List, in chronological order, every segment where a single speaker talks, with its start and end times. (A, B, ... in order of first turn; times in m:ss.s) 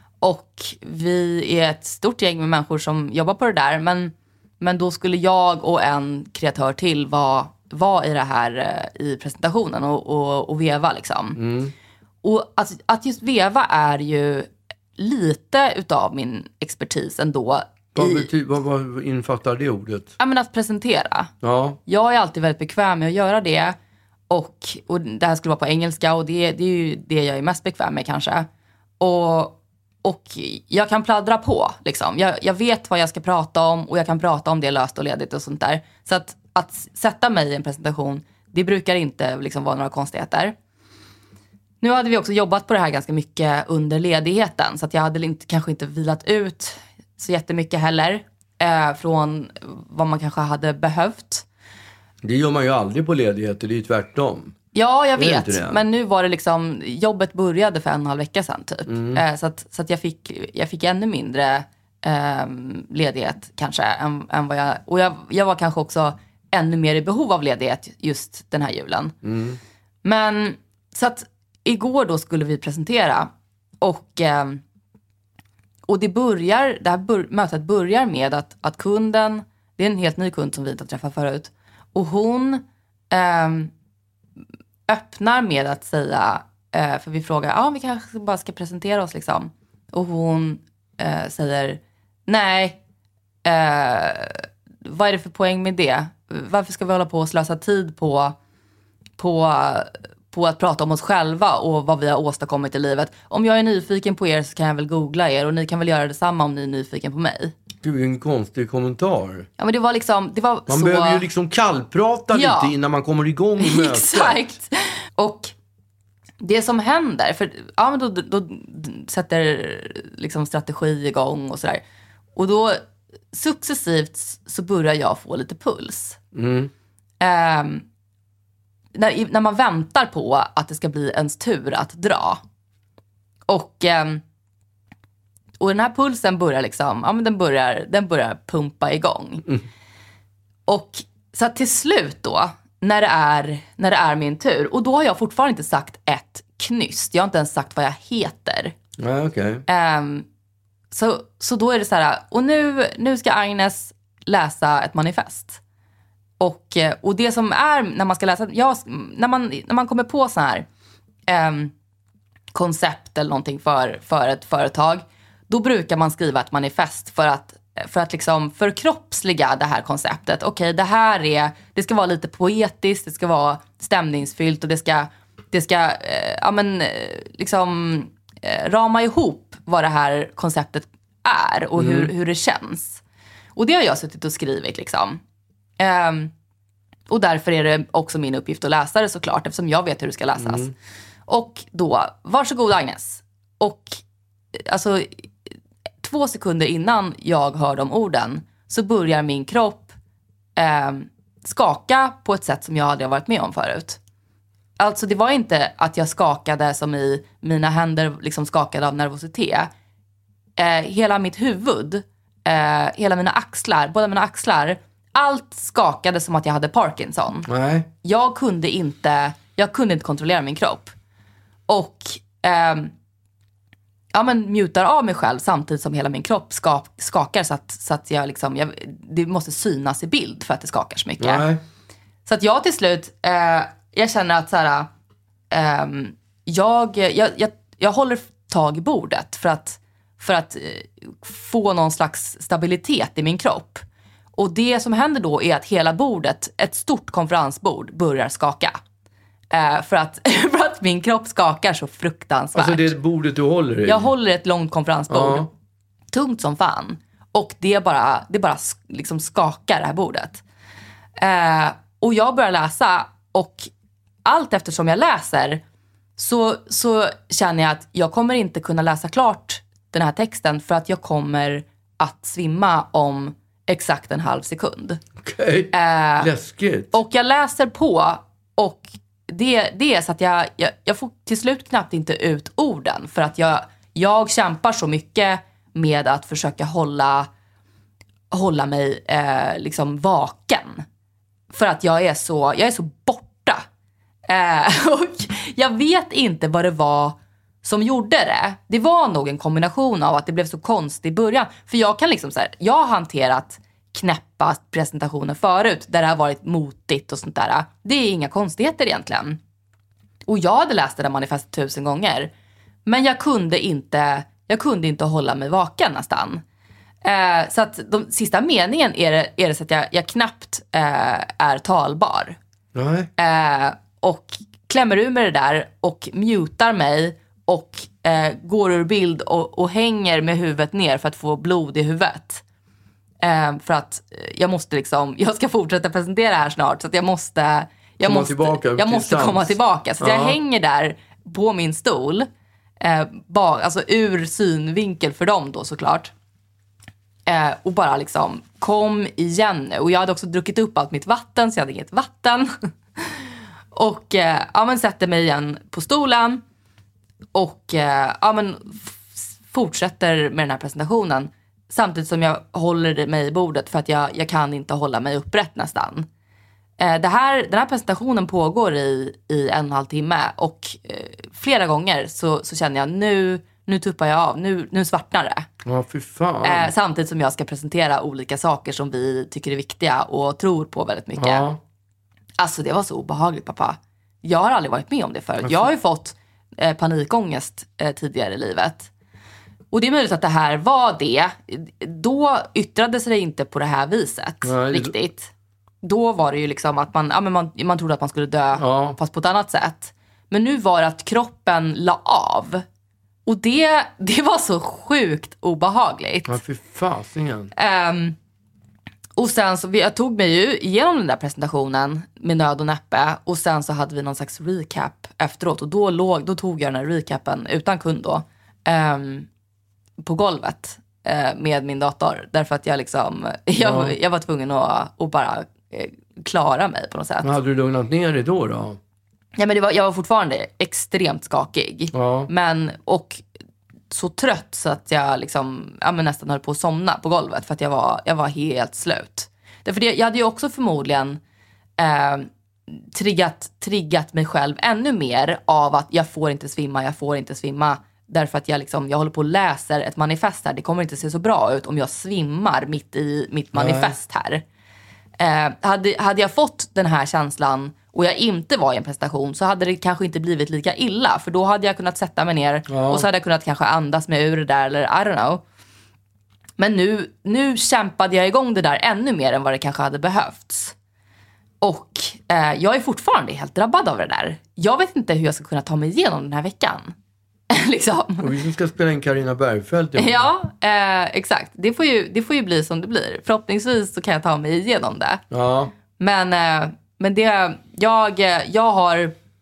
0:00.2-0:11.4 A
0:11.4-0:11.7 B
0:12.2-0:18.3 A
0:17.9-0:20.1 B
0:20.2-0:21.3 A
0:21.4-0:21.8 B
0:21.8-0:23.8 A
0:24.3-0:28.5 A
0:29.0-0:40.5 A
0:41.8-0:51.4 A
0:52.2-0:54.5 B
0:54.7-1:09.1 A
0:55.2-0:55.8 B
0:58.9-0:59.2 B
1:09.2-1:09.6 B
1:10.0-1:13.3 A
1:13.8-1:14.6 A
1:15.9-1:23.7 A
1:24.9-1:32.8 A
1:33.4-1:38.4 A
1:39.2-1:47.5 A
1:47.8-1:49.5 B
1:49.6-1:51.3 A
1:50.7-1:54.5 B
1:52.3-1:52.7 A
1:53.6-1:55.5 A
1:56.4-2:01.8 A
2:02.4-2:06.2 A
2:06.3-2:06.7 B
2:07.2-2:07.8 A
2:08.9-2:12.4 A
2:13.5-2:14.2 A
2:15.6-2:19.4 A
2:20.7-2:28.7 A
2:29.0-2:29.6 B
2:29.7-2:30.2 A
2:30.9-2:35.6 A
2:36.4-2:40.7 A
2:41.3-2:41.7 A
2:42.5-3:03.0 A
3:01.8-3:02.1 B
3:03.6-3:05.2 A
3:05.8-3:06.3 A
3:07.1-3:10.7 A
3:10.4-3:10.7 B
3:11.3-3:14.0 A
3:14.6-3:15.2 A
3:16.0-3:19.9 A
3:20.6-3:24.0 A
3:24.8-3:29.7 A
3:30.6-3:37.5 A
3:37.5-3:37.9 B
3:38.0-3:40.9 A
3:41.7-3:42.9 A
3:44.1-3:51.5 A
3:51.2-3:51.6 B
3:52.2-3:54.9 A
3:55.5-4:03.8 A
4:04.4-4:08.8 A
4:09.5-4:12.9 A
4:12.5-4:14.1 B
4:13.8-4:15.5 A
4:15.1-4:15.5 B
4:16.1-4:20.4 A
4:21.2-4:23.7 A
4:24.2-4:25.6 A
4:26.2-4:35.0 A
4:35.2-4:36.9 B
4:35.7-4:36.3 A
4:36.9-4:47.3 A
4:48.3-4:50.8 A
4:51.5-4:53.6 A
4:54.3-5:09.4 A
5:10.2-5:12.3 A
5:12.8-5:16.4 A
5:17.0-5:22.4 A
5:22.7-5:23.1 B
5:23.2-5:32.4 A
5:33.2-5:42.3 A
5:38.0-5:40.4 B
5:42.8-5:46.1 A
5:47.3-5:56.4 A
5:57.3-6:06.1 A
6:06.8-6:15.5 A
6:15.6-6:16.7 B
6:16.4-6:21.5 A
6:21.2-6:21.6 B
6:22.4-6:28.9 A
6:25.4-6:25.7 B
6:29.7-6:35.3 A
6:34.4-6:34.9 B
6:35.8-6:42.6 A
6:38.6-6:39.0 B
6:43.2-6:46.4 A
6:46.2-6:47.5 B
6:47.5-6:48.2 A
6:49.2-6:59.3 A
7:00.0-7:07.3 A
7:03.6-7:03.9 B
7:07.2-7:08.8 B
7:09.4-7:13.2 A
7:11.9-7:12.3 B
7:13.9-7:21.2 A
7:21.8-7:34.4 A
7:33.5-7:33.9 B
7:35.2-7:45.4 A
7:42.7-7:43.1 B
7:46.6-7:50.7 A
7:51.6-7:56.9 A
7:57.5-7:58.3 A
7:58.2-8:00.3 B
8:00.0-8:05.2 A
8:05.3-8:05.7 B
8:06.0-8:09.1 A